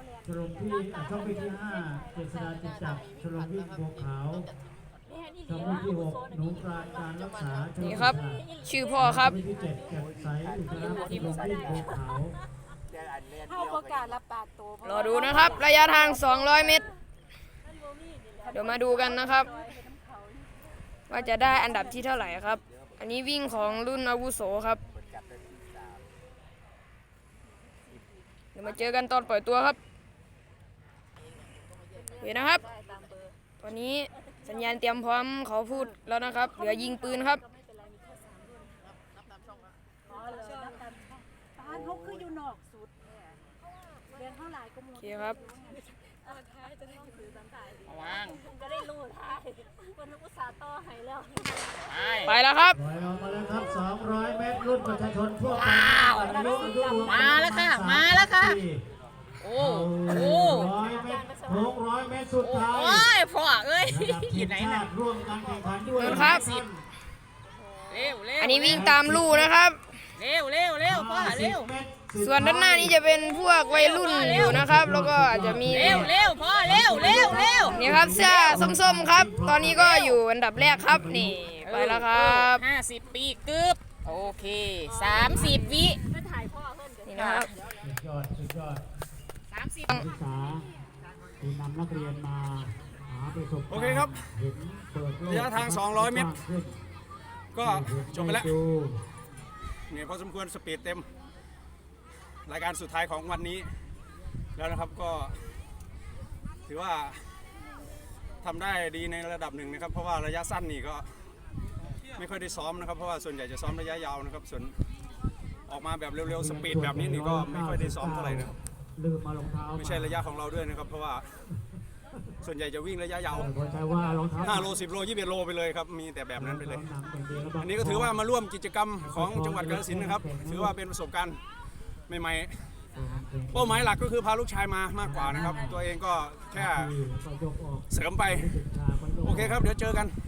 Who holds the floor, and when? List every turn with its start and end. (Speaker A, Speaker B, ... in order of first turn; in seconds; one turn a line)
Speaker A: 0.2-4.5
Speaker A: 5.5-8.4
Speaker B: 7.8-9.3
Speaker A: 9.0-12.3
Speaker C: 10.7-11.9
Speaker D: 13.6-14.3
Speaker B: 14.8-16.9
Speaker B: 18.5-19.5
Speaker B: 21.1-24.8
Speaker B: 28.5-29.8
Speaker B: 32.2-32.6
Speaker B: 33.6-37.4
Speaker D: 40.4-40.8
Speaker C: 41.7-42.2
Speaker D: 42.0-42.6
Speaker B: 45.0-45.4
Speaker D: 45.3-45.8
Speaker D: 46.8-47.7
Speaker C: 47.9-48.4
Speaker D: 48.7-51.4
Speaker C: 51.9-52.4
Speaker B: 52.2-52.8
Speaker A: 52.8-58.8
Speaker C: 55.4-58.6
Speaker C: 59.4-60.7
Speaker A: 59.6-63.1
Speaker C: 62.4-64.8
Speaker A: 63.9-66.8
Speaker B: 66.0-66.4
Speaker C: 66.0-66.6
Speaker C: 67.9-68.9
Speaker B: 68.4-69.8
Speaker A: 68.7-69.5
Speaker C: 70.2-71.7
Speaker A: 70.9-73.0
Speaker B: 72.2-76.1
Speaker C: 73.7-74.6
Speaker A: 74.3-80.0
Speaker C: 75.7-78.7
Speaker B: 77.7-82.6
Speaker C: 79.7-80.2
Speaker A: 80.6-81.4
Speaker C: 81.6-86.0
Speaker B: 87.0-87.5
Speaker C: 87.1-87.5
Speaker A: 87.8-88.8
Speaker C: 89.5-90.0
Speaker A: 89.9-90.6
Speaker A: 91.4-96.8
Speaker E: 93.7-94.1
Speaker E: 95.2-96.3
Speaker E: 97.5-98.5
Speaker A: 97.6-99.0
Speaker E: 99.9-101.1
Speaker E: 102.4-103.7
Speaker E: 104.5-105.5
Speaker E: 106.7-107.4
Speaker E: 108.4-111.2
Speaker E: 112.1-114.8
Speaker E: 115.7-118.5
Speaker A: 116.2-120.2
Speaker E: 119.8-121.4
Speaker E: 122.4-123.5
Speaker A: 123.3-124.7
Speaker E: 124.4-126.9
Speaker A: 126.4-128.1
Speaker E: 127.6-131.4
Speaker A: 129.0-130.7
Speaker E: 132.1-132.8
Speaker A: 132.9-133.9
Speaker E: 133.5-136.9
Speaker A: 135.0-135.8
Speaker A: 136.5-139.7
Speaker E: 137.9-138.5
Speaker E: 139.2-140.2